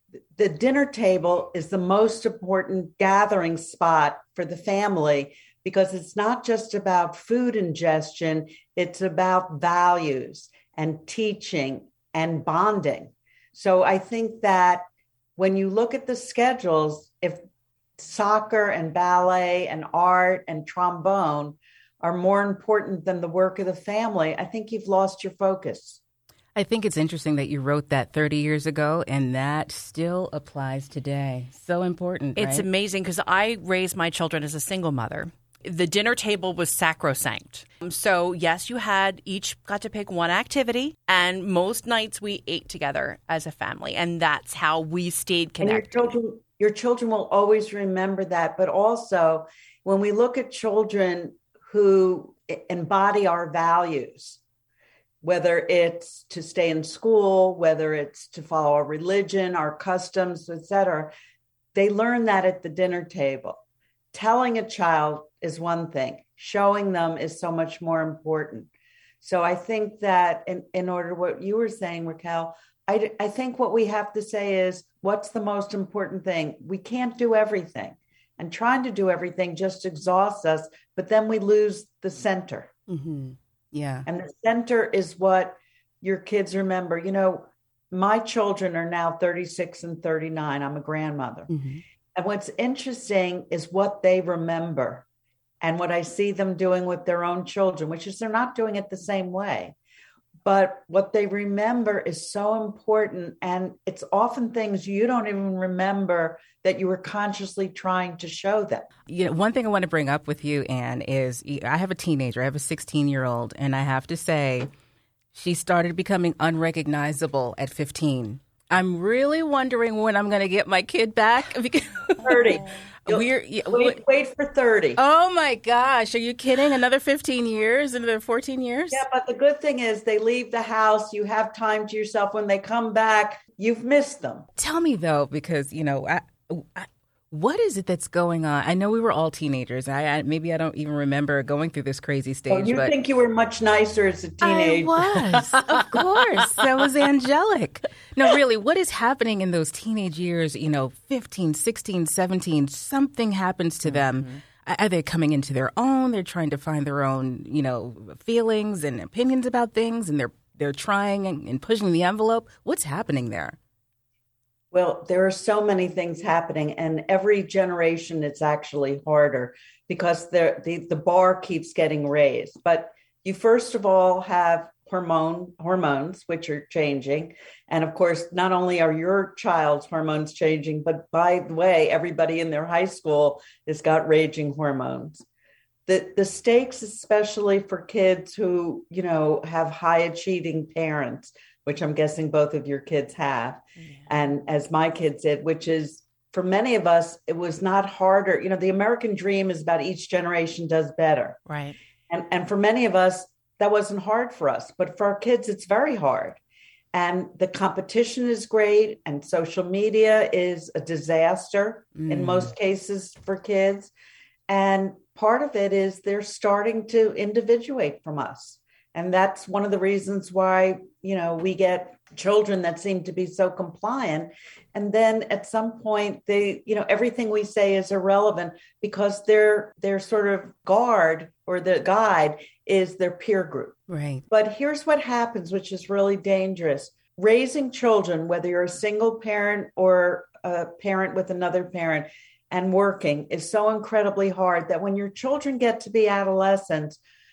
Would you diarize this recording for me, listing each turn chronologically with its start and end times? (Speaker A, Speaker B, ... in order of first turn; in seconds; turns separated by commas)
Speaker A: 0.4-14.8, Speaker A: 15.4-17.4, Speaker A: 18.0-26.0, Speaker B: 26.6-32.7, Speaker C: 32.4-46.1, Speaker A: 45.6-54.4, Speaker A: 55.2-61.1, Speaker A: 61.8-63.6, Speaker A: 64.1-68.7, Speaker A: 69.2-82.7, Speaker B: 82.9-84.1, Speaker A: 84.1-91.5, Speaker B: 91.5-91.8, Speaker A: 92.1-95.0, Speaker A: 95.6-99.8, Speaker A: 100.4-108.9, Speaker B: 109.1-114.7, Speaker B: 115.3-124.0, Speaker A: 122.2-125.0, Speaker B: 125.0-129.0, Speaker A: 128.9-134.5, Speaker B: 134.6-142.9, Speaker A: 142.5-145.6, Speaker B: 144.4-163.6, Speaker C: 153.8-154.4, Speaker A: 164.7-185.2, Speaker A: 185.9-201.4, Speaker C: 201.4-201.8, Speaker A: 202.1-206.4, Speaker A: 206.9-213.9, Speaker B: 212.0-212.5, Speaker A: 214.5-247.0, Speaker B: 233.9-234.2